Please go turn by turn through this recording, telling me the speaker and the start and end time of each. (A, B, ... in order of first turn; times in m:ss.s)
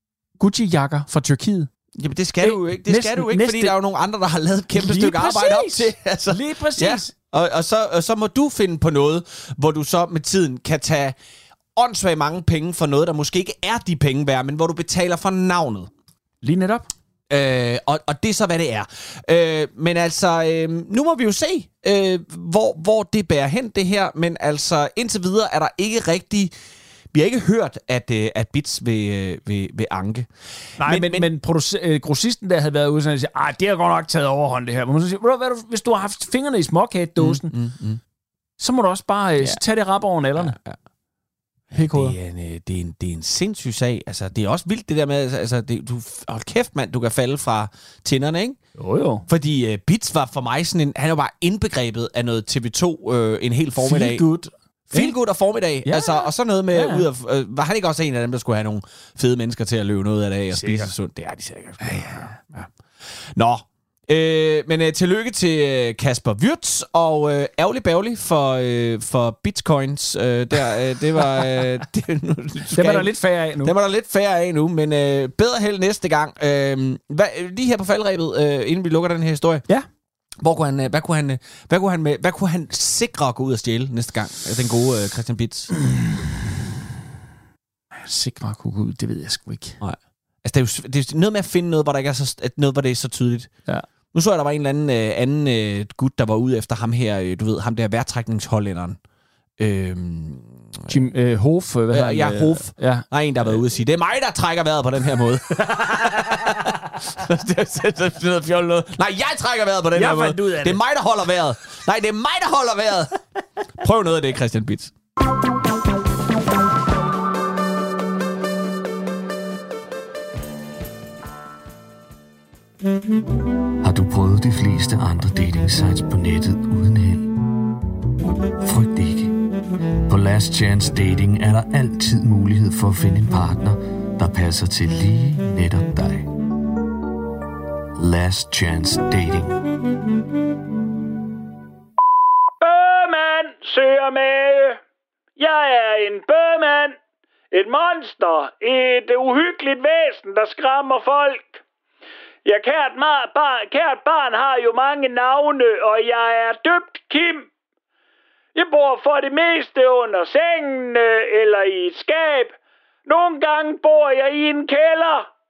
0:00.4-0:01.7 A
0:01.9-0:11.2 B
0:02.4-0:03.8 A
0:04.7-0:07.1 A
0:11.8-0:15.9 B
0:16.4-0:16.9 A
0:17.3-0:26.5 B
0:27.1-0:31.3 B
0:30.8-0:37.5 A
0:37.2-0:38.0 B
0:38.6-0:40.6 A
0:40.4-0:40.8 B
0:41.7-0:48.6 B
0:41.7-0:42.1 A
0:48.8-0:49.3 A
0:49.3-0:54.2 B
0:53.8-0:55.1 A
0:54.9-1:02.7 B
0:55.8-0:57.1 A
1:00.5-1:00.9 A
1:01.8-1:02.4 A
1:03.2-1:19.6 B
1:12.7-1:13.7 A
1:20.4-1:25.7 B
1:25.9-1:26.2 A
1:27.9-1:29.8 A
1:29.8-1:33.5 B
1:34.1-1:39.0 B
1:39.6-1:41.0 B
1:40.9-1:43.6 A
1:41.9-1:53.1 B
1:46.3-1:46.6 A
1:49.9-1:50.8 A
1:53.8-1:54.9 B
2:03.8-2:07.3 C
2:08.6-2:09.4 C
2:10.1-2:16.3 C
2:18.0-2:19.6 C
2:22.6-2:24.8 D
2:25.4-2:27.0 D
2:27.5-2:31.6 D
2:32.4-2:37.5 D
2:38.6-2:42.6 D
2:43.1-2:45.3 D